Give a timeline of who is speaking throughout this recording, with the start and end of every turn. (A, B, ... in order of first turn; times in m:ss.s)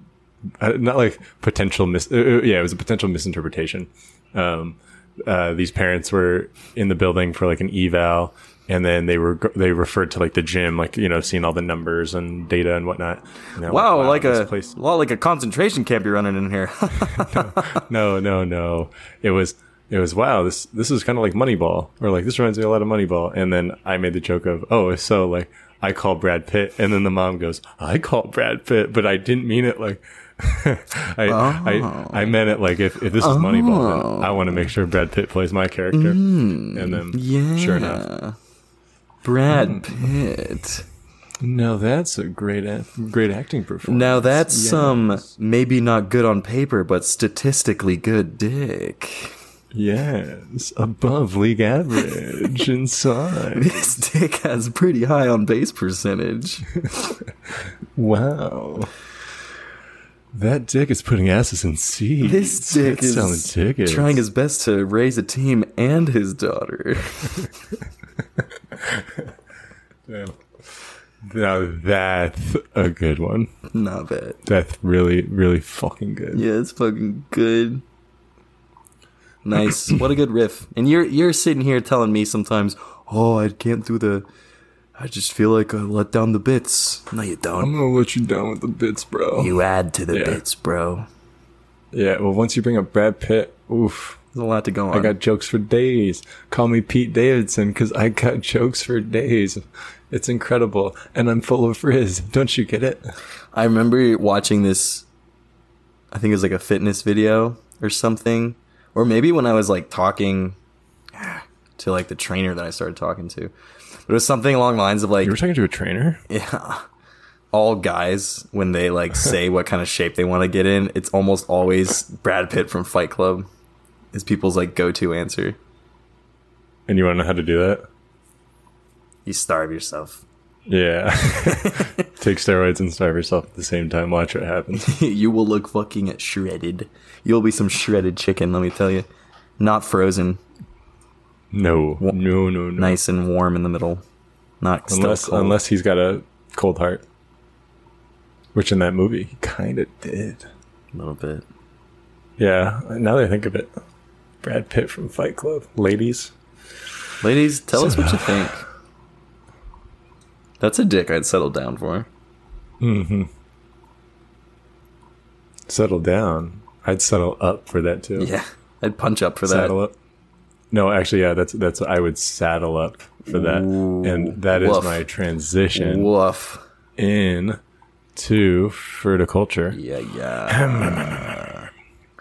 0:00.6-0:14.7 A
0:13.6-0:17.8 B
0:17.1-0:38.0 A
0:31.3-0:32.4 B
0:33.2-0:34.7 B
0:35.9-0:38.4 B
0:39.2-0:40.9 B
0:39.5-0:40.1 A
0:41.4-0:45.1 A
0:43.8-0:49.4 B
0:49.7-0:53.9 A
0:53.5-0:56.7 B
0:58.0-0:58.9 A
1:00.3-1:04.2 A
1:02.2-1:07.5 B
1:08.7-1:09.3 A
1:10.1-1:10.4 A
1:11.2-1:13.5 A
1:13.7-1:14.4 B
1:14.4-1:16.4 A
1:16.3-1:17.8 B
1:19.4-1:24.3 B
1:25.0-1:27.7 B
1:27.6-1:29.5 A
1:29.4-1:31.0 B
1:30.1-1:30.4 A
1:31.9-1:34.2 A
1:34.3-1:35.1 B
1:34.9-1:43.1 A
1:43.5-1:45.0 B
1:46.1-1:50.6 B
1:51.2-1:53.5 B
1:54.1-1:55.4 B
1:55.2-1:56.2 A
1:56.3-1:56.8 B
1:57.5-2:03.5 B
2:04.1-2:05.6 B
2:06.9-2:07.8 A
2:09.2-2:10.2 B
2:10.7-2:14.9 A
2:11.4-2:12.0 B
2:14.7-2:19.0 B
2:19.6-2:20.4 B
2:21.5-2:23.0 A
2:22.8-2:24.0 B
2:24.6-2:25.6 B
2:24.9-2:27.0 A
2:28.5-2:30.4 A
2:30.9-2:31.4 B
2:32.4-2:33.7 A
2:34.4-2:36.3 A
2:37.2-2:38.6 B
2:37.7-2:38.6 A
2:40.6-2:42.1 B
2:42.8-2:43.3 A
2:45.7-2:48.3 A
2:48.2-2:49.7 B
2:49.4-2:50.0 A
2:50.7-2:56.1 A
2:53.3-2:55.0 B
2:55.7-2:56.6 B
2:57.0-2:57.6 A
2:58.1-2:59.8 A
2:59.7-3:01.6 B
3:00.5-3:01.5 A